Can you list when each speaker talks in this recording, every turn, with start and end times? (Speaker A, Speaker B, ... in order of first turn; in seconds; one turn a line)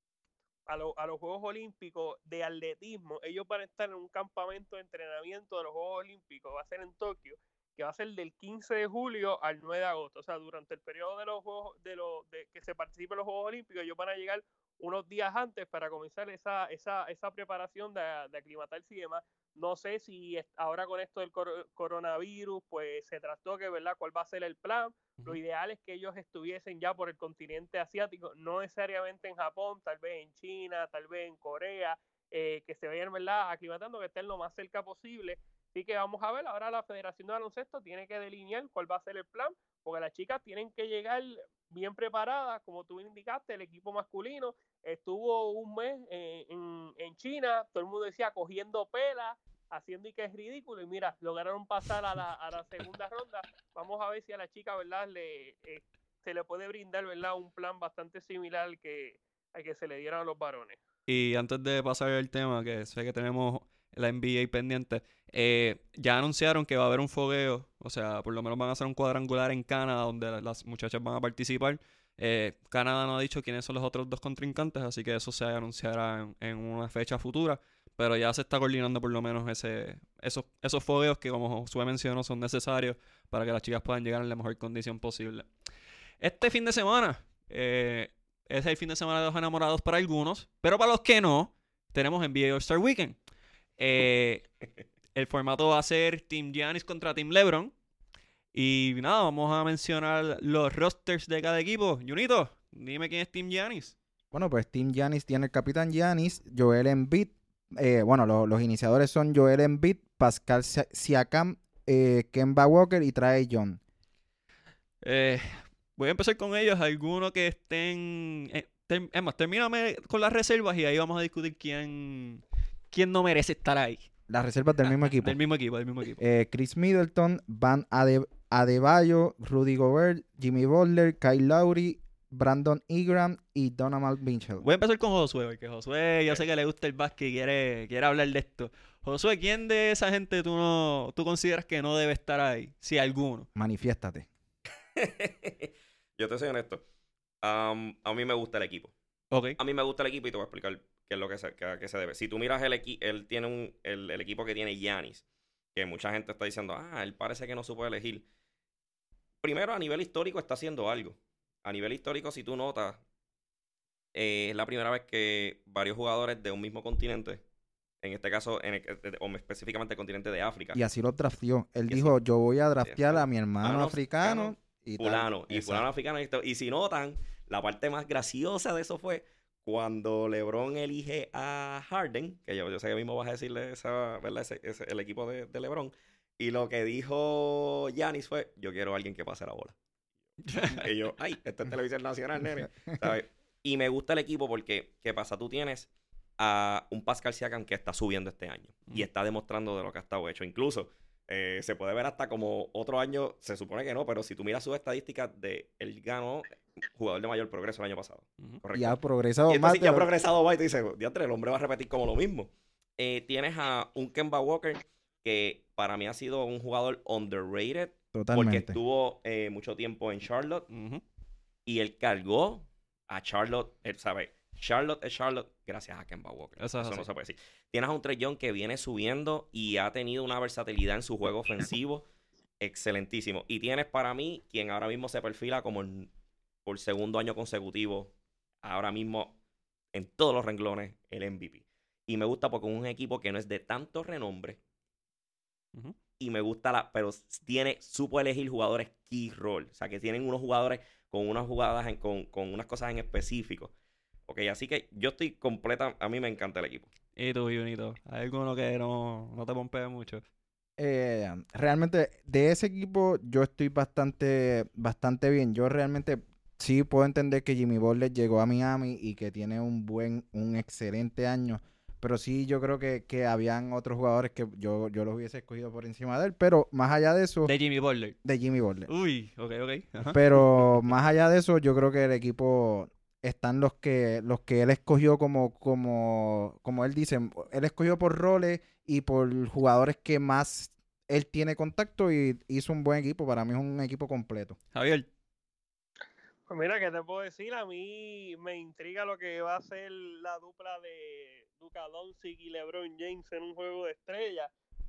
Speaker A: 0.7-60.8
Speaker B: 61.1-85.5
Speaker B: 86.2-93.2
Speaker B: 93.8-94.5
Speaker B: 95.2-97.7
Speaker B: 98.5-104.0
Speaker C: 104.3-113.8
Speaker B: 115.0-124.1
Speaker C: 124.3-125.4
Speaker B: 124.8-126.2
Speaker C: 126.2-134.6
Speaker B: 134.6-143.5
Speaker C: 143.6-144.3
Speaker D: 145.0-146.8
Speaker D: 147.4-148.9
Speaker B: 149.3-149.6
Speaker D: 149.6-155.2
Speaker D: 155.8-158.3
Speaker D: 159.4-163.0
Speaker D: 164.1-167.4
Speaker D: 168.0-170.8
Speaker C: 170.8-175.9
Speaker D: 171.9-172.1
Speaker D: 172.8-189.8
Speaker B: 190.4-190.8
Speaker D: 190.7-195.9
Speaker D: 196.4-220.7
Speaker C: 208.7-210.1
Speaker C: 218.1-218.8
Speaker B: 220.7-221.0
Speaker D: 221.7-232.1
Speaker B: 226.6-227.1
Speaker D: 232.6-236.1
Speaker D: 236.7-238.1
Speaker D: 238.6-239.3
Speaker D: 239.9-244.6
Speaker D: 246.2-253.7
Speaker D: 254.3-256.9
Speaker B: 257.2-260.2
Speaker C: 260.8-277.5
Speaker B: 277.5-278.2
Speaker C: 278.2-278.9
Speaker B: 278.9-280.9
Speaker C: 280.1-294.6
Speaker B: 294.7-295.1
Speaker A: 296.5-304.5